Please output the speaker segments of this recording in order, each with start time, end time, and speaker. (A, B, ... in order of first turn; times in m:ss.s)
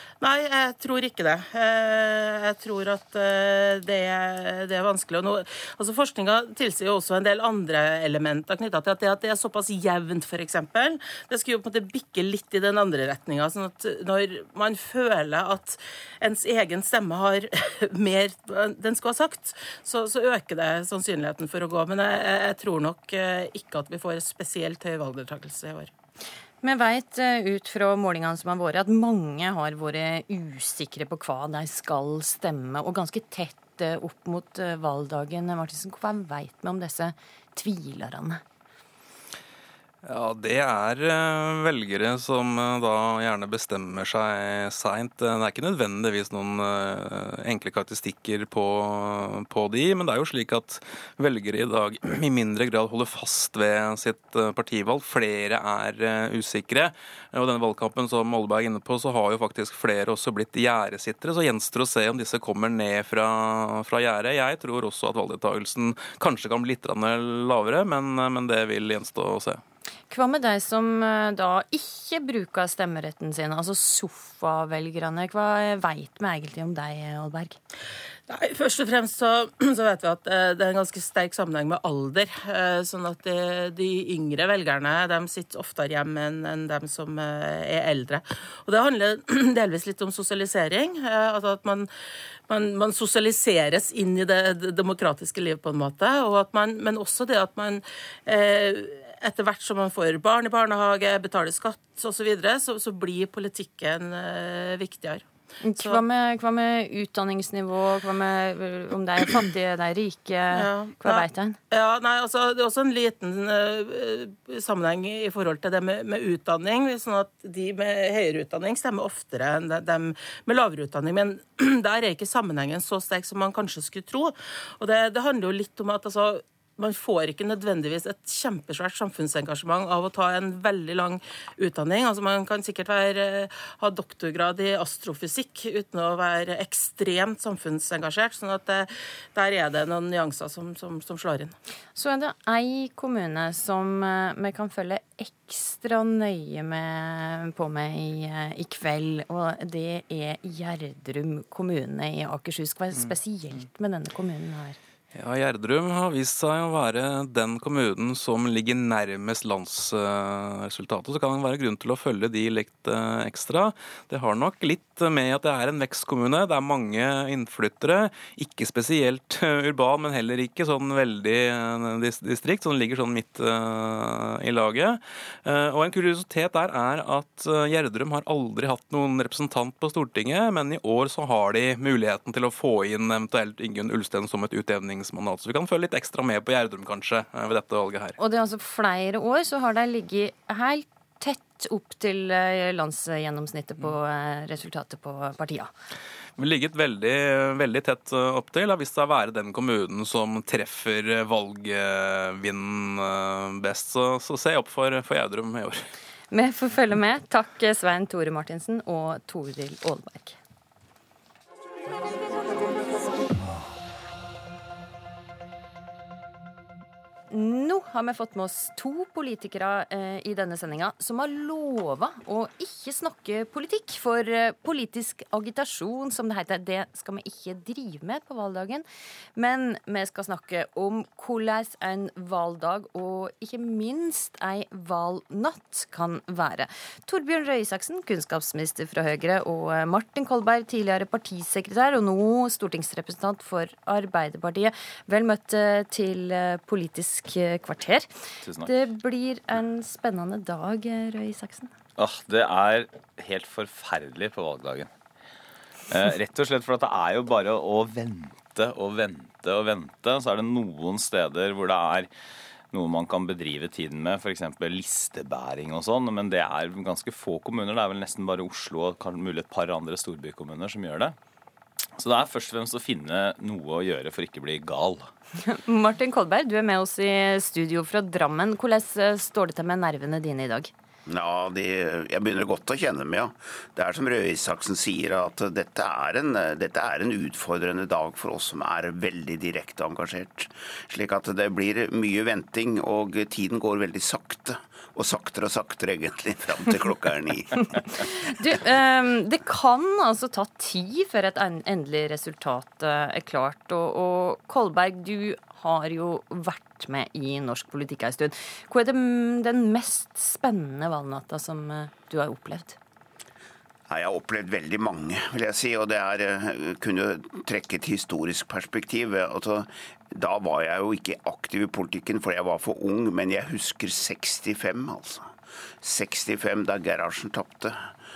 0:00.2-0:25.9 A
0:26.6-0:38.4 B
0:40.0-1:09.6 C
1:10.1-1:17.6 B
1:18.3-1:31.9 A
1:32.5-1:45.2 A
1:45.6-1:51.6 B
1:50.5-2:21.6 A
2:21.9-2:34.8 B
2:35.1-3:08.2 C
3:08.2-3:15.7 B
3:16.4-3:25.8 C
3:26.3-3:30.4 B
3:37.3-3:48.8 B
3:49.4-4:08.1 B
4:08.4-4:08.7 D
4:08.6-4:11.7 B
4:12.0-4:14.9 D
4:15.9-4:22.1 D
4:22.7-4:31.2 D
4:32.0-4:35.1 D
4:35.4-4:40.7 B
4:41.1-4:57.7 E
4:57.8-5:12.8 B
5:13.9-5:25.3 E
5:25.8-5:27.9 E